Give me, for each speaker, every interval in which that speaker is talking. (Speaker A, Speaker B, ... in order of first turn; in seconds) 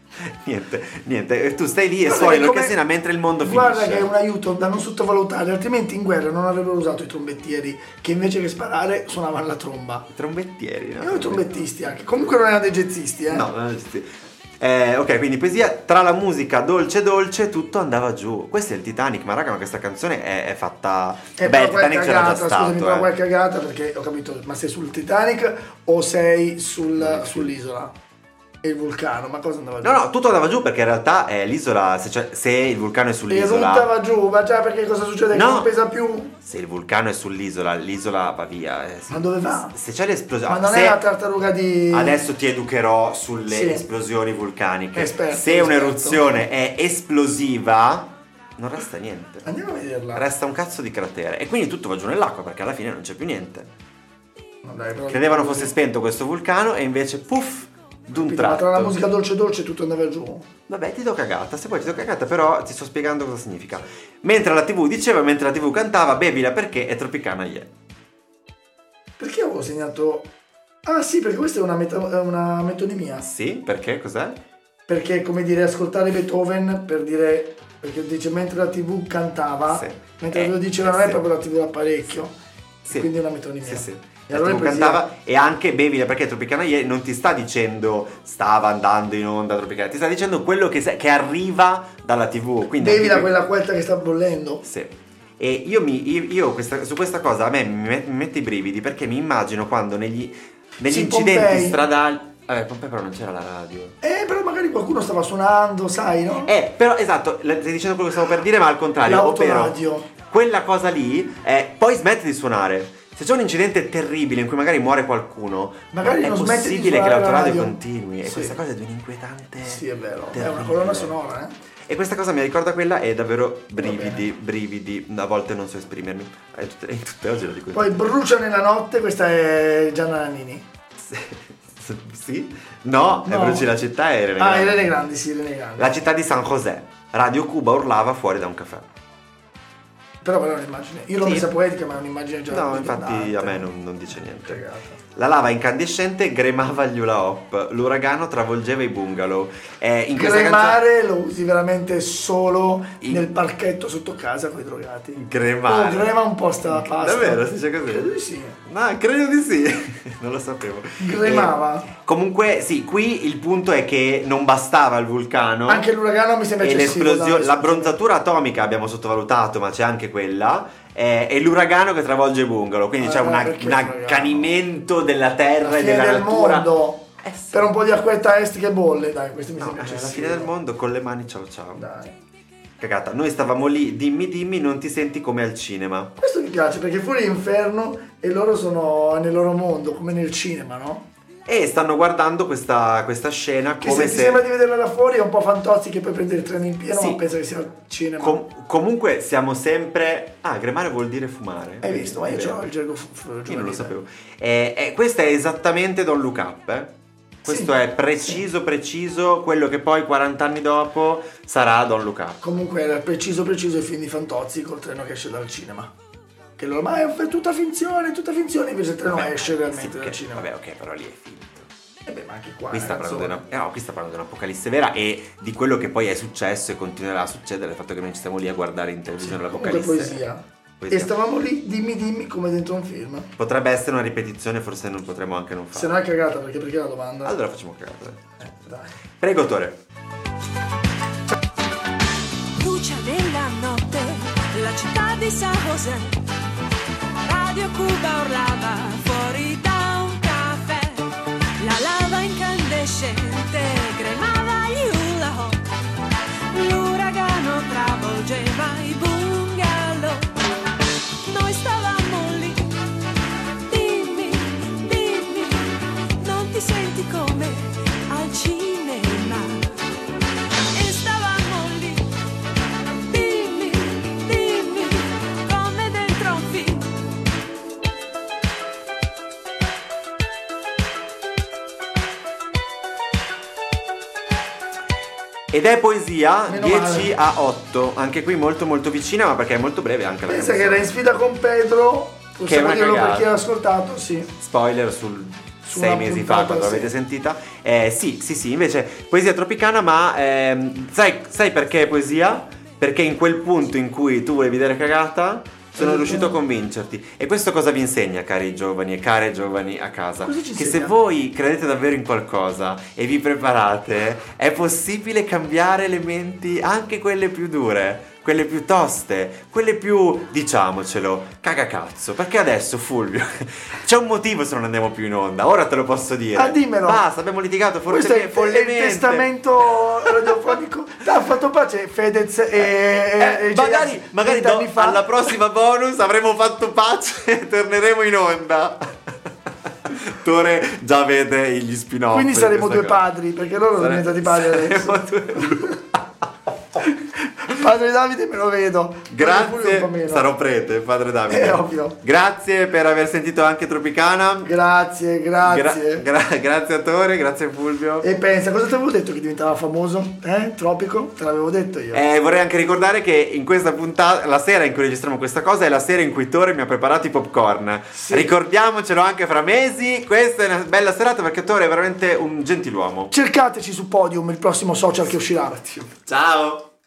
Speaker A: 0.4-4.1, 10.1-11.5, 13.3-23.1, 26.9-27.6, 29.8-33.9, 35.3-35.7, 36.4-41.0, 41.9-49.5, 50.1-53.7, 55.1-59.0, 60.7-67.7, 73.2-74.4, 79.7-81.2, 82.8-83.1, 83.6-93.3, 94.6-103.9, 106.4-121.1, 121.9-128.1, 131.0-134.9, 135.8-138.9, 141.2-141.5, 142.5-144.6, 145.2-150.8, 153.0-153.3, 155.1-158.1, 158.7-165.9, 166.6-177.7, 179.6-181.8, 182.8-186.1, 191.5-194.5, 196.9-197.2, 198.2-202.6, 203.5-212.4, 219.0-221.7, 222.7-230.2, 230.8-231.1, 233.4-236.0, 237.2-239.8, 285.5-291.0, 292.4-293.3, 294.4-330.5, 332.6-339.1, 339.9-343.0, 343.7-346.2, 349.1-354.5, 355.4-358.1, 361.9-373.1, 376.1-376.7
Speaker B: 2.1-2.8, 3.4-10.1, 11.0-13.5, 21.4-27.9, 28.6-30.0, 33.3-36.4, 39.1-39.8, 40.5-42.3, 43.5-43.9, 44.9-46.4, 49.4-50.2, 54.6-55.8, 58.1-60.5, 69.2-70.3, 70.8-73.2, 74.9-82.3, 82.9-85.0, 92.8-94.6, 100.9-101.8, 104.0-106.5, 109.0-110.1, 115.9-118.6, 119.6-121.5, 123.8-124.2, 127.7-130.7, 133.2-133.7, 134.4-136.0, 140.2-143.7, 144.4-145.0, 150.1-158.6, 161.0-161.9, 165.7-168.0, 173.0-174.6, 175.6-180.5, 181.8-182.1, 186.2-191.1, 193.8-198.4, 201.8-203.9, 207.5-207.7, 212.4-215.9, 216.6-220.5, 222.0-223.4, 229.2-233.3, 235.7-237.4, 238.4-238.9, 286.5-287.1, 290.3-294.3, 295.6-296.9, 305.8-306.4, 310.2-311.0, 326.4-327.0, 327.9-335.3, 342.1-345.4, 347.4-350.3, 351.3-352.0, 354.4-356.1, 358.0-362.0, 367.9-368.3, 373.1-375.9
Speaker C: 242.6-246.2, 247.2-255.6, 256.5-260.3, 261.2-262.8, 263.7-269.8, 270.7-272.1, 273.1-276.9